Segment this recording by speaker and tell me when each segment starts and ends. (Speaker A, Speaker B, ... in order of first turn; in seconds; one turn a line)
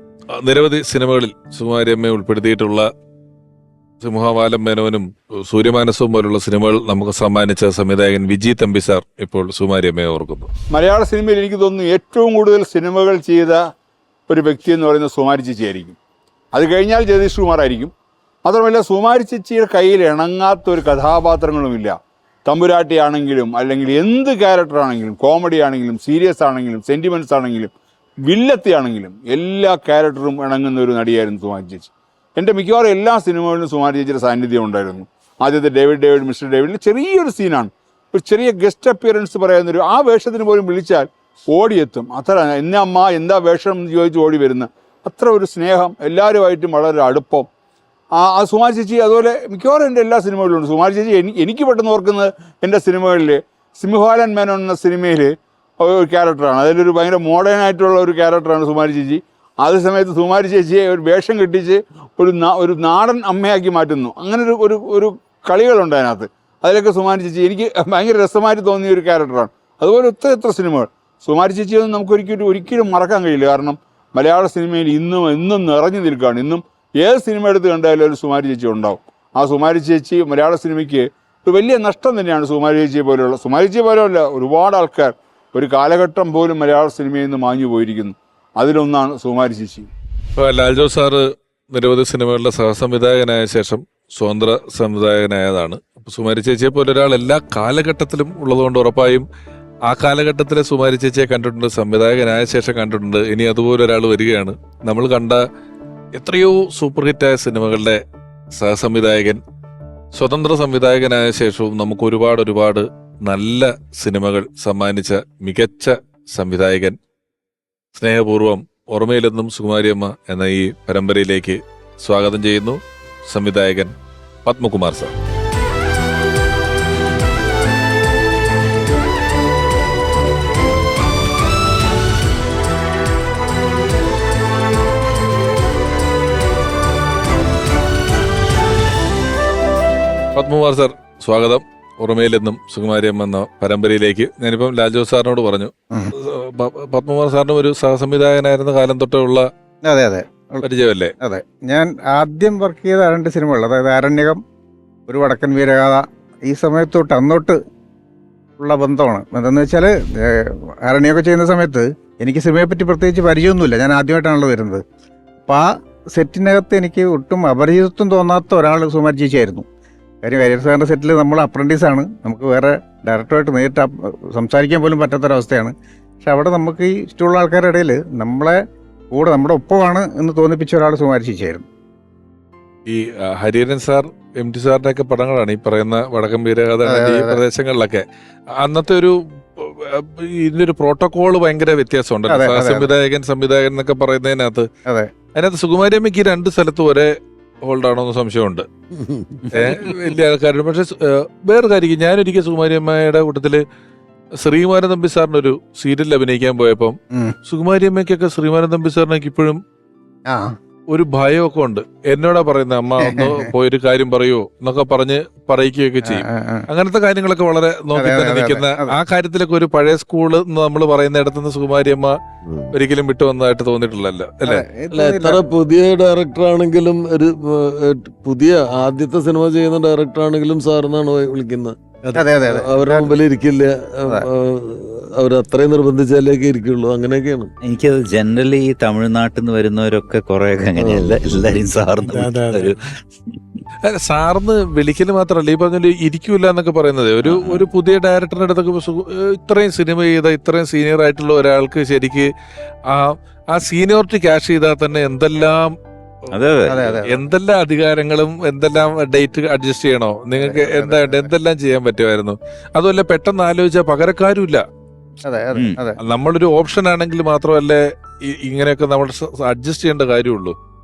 Speaker A: 0.4-2.9
Speaker A: 4.0-10.5
Speaker B: 10.7-13.6
Speaker B: 14.3-16.0
Speaker B: 16.5-17.9
Speaker B: 18.5-21.9
Speaker B: 22.5-27.7
Speaker B: 28.3-47.5
Speaker B: 48.2-89.9
Speaker A: 90.4-99.2
Speaker A: 99.9-105.4
Speaker A: 106.2-108.0
Speaker A: 108.5-109.4
Speaker A: 110.1-117.0
Speaker A: 117.9-123.9
Speaker A: 124.4-125.1
Speaker A: 140.3-149.5
Speaker C: 149.8-150.7
Speaker A: 150.6-151.1
Speaker C: 151.2-154.4
Speaker C: 155.1-157.6
Speaker C: 158.6-164.8
Speaker C: 165.5-169.6
Speaker C: 170.2-178.6
Speaker C: 179.1-181.6
Speaker A: 182.9-188.0
Speaker C: 186.8-187.4
Speaker A: 188.6-194.7
Speaker C: 192.3-192.9
Speaker A: 195.4-197.1
Speaker A: 197.7-198.7
Speaker D: 199.0-199.2
Speaker A: 199.5-203.6
Speaker A: 204.4-209.6
Speaker C: 210.3-210.5
Speaker A: 210.9-222.1
Speaker C: 213.0-213.5
Speaker C: 216.0-216.7
Speaker C: 217.9-218.9
Speaker D: 222.5-222.7
Speaker A: 222.7-224.6
Speaker C: 224.4-225.4
Speaker D: 224.9-237.5
Speaker C: 232.1-233.2
Speaker E: 237.6-243.0
Speaker D: 240.8-241.6
Speaker A: 243.8-252.3
Speaker E: 247.2-247.7
Speaker A: 252.9-255.7
Speaker E: 256.3-257.1
Speaker C: 256.7-257.1
Speaker A: 257.1-264.6
Speaker C: 260.3-261.3
Speaker C: 265.2-266.0
Speaker A: 266.0-270.5